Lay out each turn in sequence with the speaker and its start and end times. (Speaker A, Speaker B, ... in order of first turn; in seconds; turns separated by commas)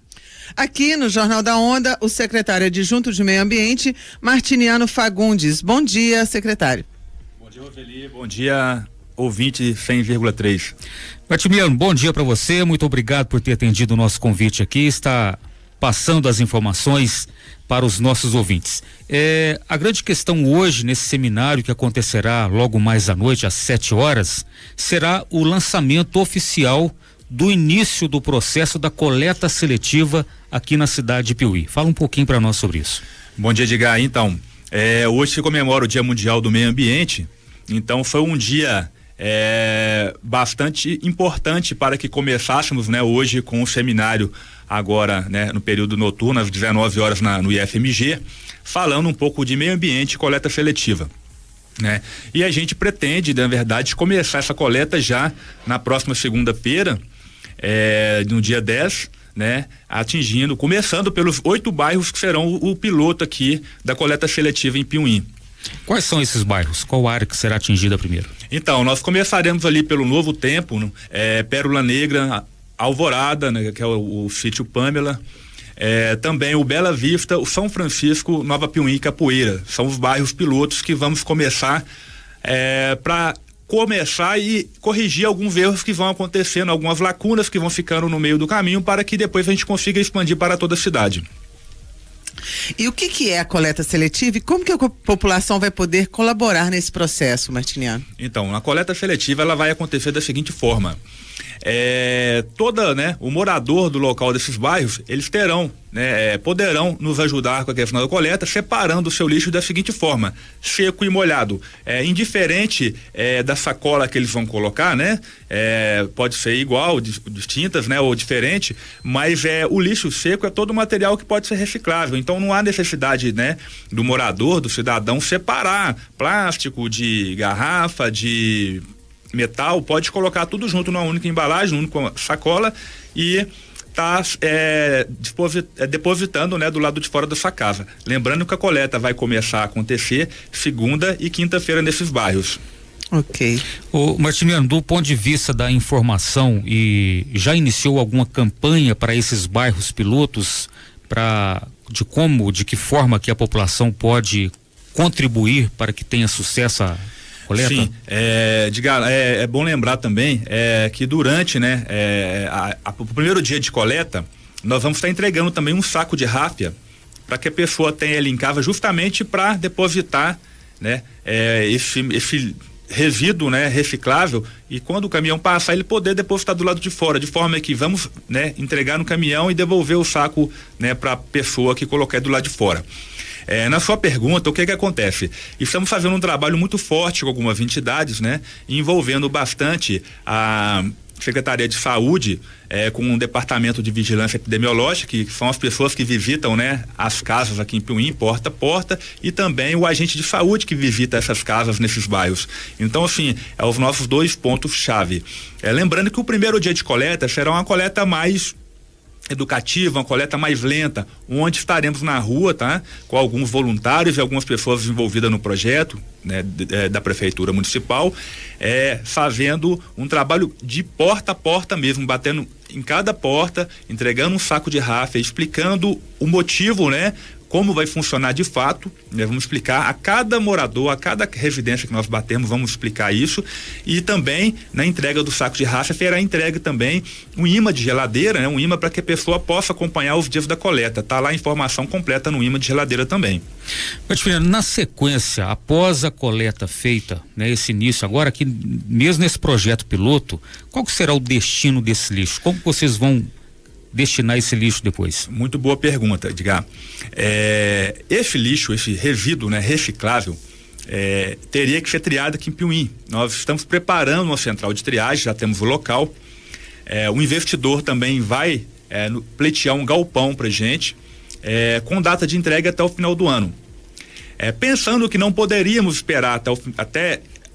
Speaker A: 0.6-6.8, Speaker B: 7.4-10.7, Speaker C: 11.3-33.0, Speaker B: 33.4-51.1, Speaker B: 51.8-57.0, Speaker B: 57.6-65.2, Speaker C: 65.9-68.3, Speaker B: 68.5-75.2, Speaker B: 75.8-81.8, Speaker B: 82.4-91.2, Speaker A: 92.8-98.0, Speaker B: 98.2-101.0, Speaker B: 101.6-142.6, Speaker A: 143.1-143.6, Speaker C: 143.9-157.9, Speaker B: 157.5-166.8, Speaker B: 167.3-182.8, Speaker B: 183.5-208.6, Speaker B: 209.3-243.4, Speaker C: 244.1-253.3, Speaker C: 253.9-255.3, Speaker B: 255.3-266.1, Speaker B: 266.9-273.5, Speaker B: 274.4-277.2